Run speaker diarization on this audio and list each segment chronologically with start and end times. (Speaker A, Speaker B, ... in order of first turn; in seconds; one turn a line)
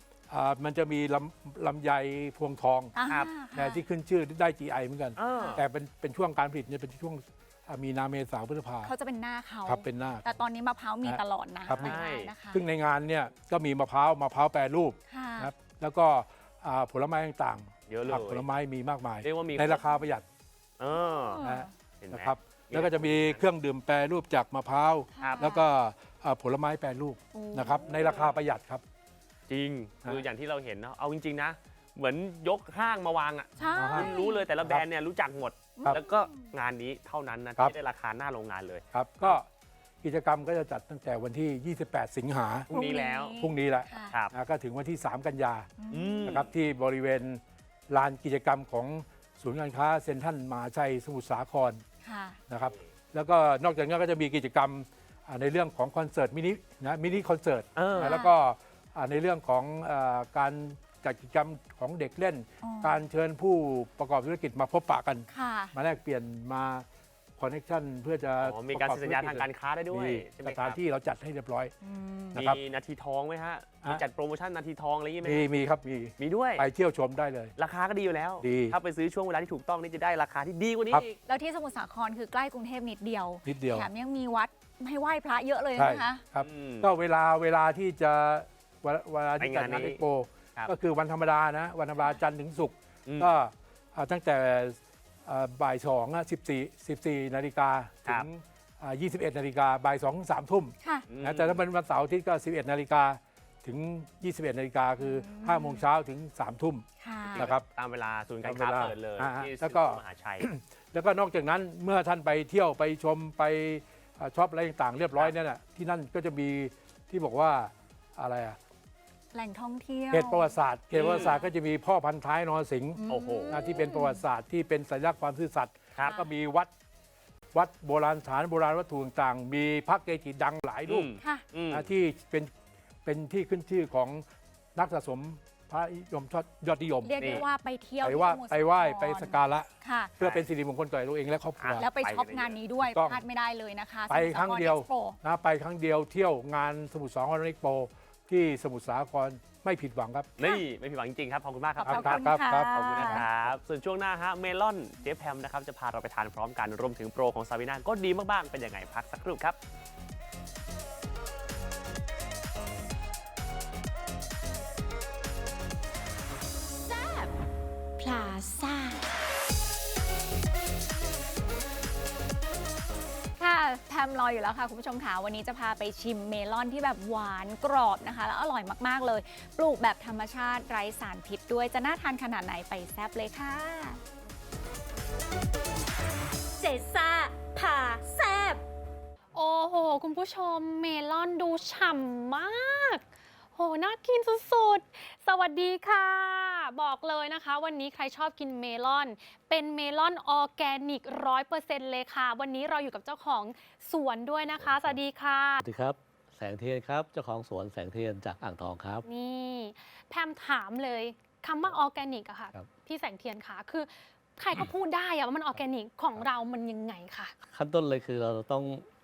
Speaker A: 0.3-2.9
Speaker B: 2.9-3.8
Speaker A: 3.5-8.9
Speaker C: 5.2-5.6
Speaker B: 8.8-12.6
Speaker A: 9.7-10.4
Speaker A: 11.0-12.0
Speaker C: 11.7-12.3
Speaker A: 12.5-20.2
Speaker B: 15.1-15.5
Speaker C: 17.9-18.5
Speaker C: 19.2-19.8
Speaker C: 20.8-21.4
Speaker B: 21.0-21.7
Speaker A: 21.4-28.8
Speaker C: 22.0-23.4
Speaker B: 25.1-25.7
Speaker C: 25.2-25.5
Speaker B: 27.3-27.9
Speaker C: 27.8-28.4
Speaker C: 29.5-39.4
Speaker B: 33.6-34.4
Speaker A: 33.7-34.8
Speaker B: 35.8-36.5
Speaker A: 38.9-39.5
Speaker A: 40.0-42.7
Speaker C: 42.7-43.4
Speaker B: 42.7-44.1
Speaker A: 43.4-45.7
Speaker B: 45.8-46.4
Speaker C: 45.9-46.5
Speaker A: 46.2-51.8
Speaker B: 52.0-52.4
Speaker A: 52.5-66.9
Speaker C: 57.8-58.2
Speaker B: 58.0-58.3
Speaker B: 62.6-63.0
Speaker B: 65.3-65.7
Speaker A: 67.4-71.7
Speaker C: 68.4-70.8
Speaker B: 71.8-72.4
Speaker A: 72.3-72.6
Speaker C: 72.3-75.5
Speaker A: 75.2-77.5
Speaker C: 76.2-76.7
Speaker C: 77.5-81.2
Speaker A: 78.4-78.8
Speaker B: 81.2-86.2
Speaker A: 83.4-83.9
Speaker A: 85.8-107.7
Speaker C: 86.4-86.9
Speaker C: 89.4-90.0
Speaker C: 93.0-93.3
Speaker B: 100.8-101.0
Speaker C: 101.1-101.6
Speaker B: 105.0-105.9
Speaker B: 107.0-107.5
Speaker C: 107.2-110.5
Speaker A: 108.4-118.6
Speaker B: 119.3-121.5
Speaker A: 120.1-126.7
Speaker C: 121.0-121.4
Speaker B: 123.0-124.2
Speaker C: 123.1-123.7
Speaker A: 127.5-131.2
Speaker C: 130.9-131.9
Speaker A: 131.7-132.5
Speaker A: 133.0-137.5
Speaker B: 137.0-140.1
Speaker C: 137.2-137.4
Speaker A: 138.0-141.9
Speaker C: 140.2-140.5
Speaker C: 141.6-142.6
Speaker B: 141.8-145.2
Speaker A: 142.8-143.2
Speaker A: 144.1-150.3
Speaker C: 150.4-159.6
Speaker B: 151.8-153.2
Speaker A: 151.8-153.5
Speaker D: 166.8-167.3
Speaker D: 168.0-169.0
Speaker B: 173.4-184.0
Speaker D: 187.0-188.6
Speaker E: 189.3-205.6
Speaker F: 204.5-205.0
Speaker F: 205.6-209.1
Speaker E: 209.1-217.3
Speaker F: 217.4-218.8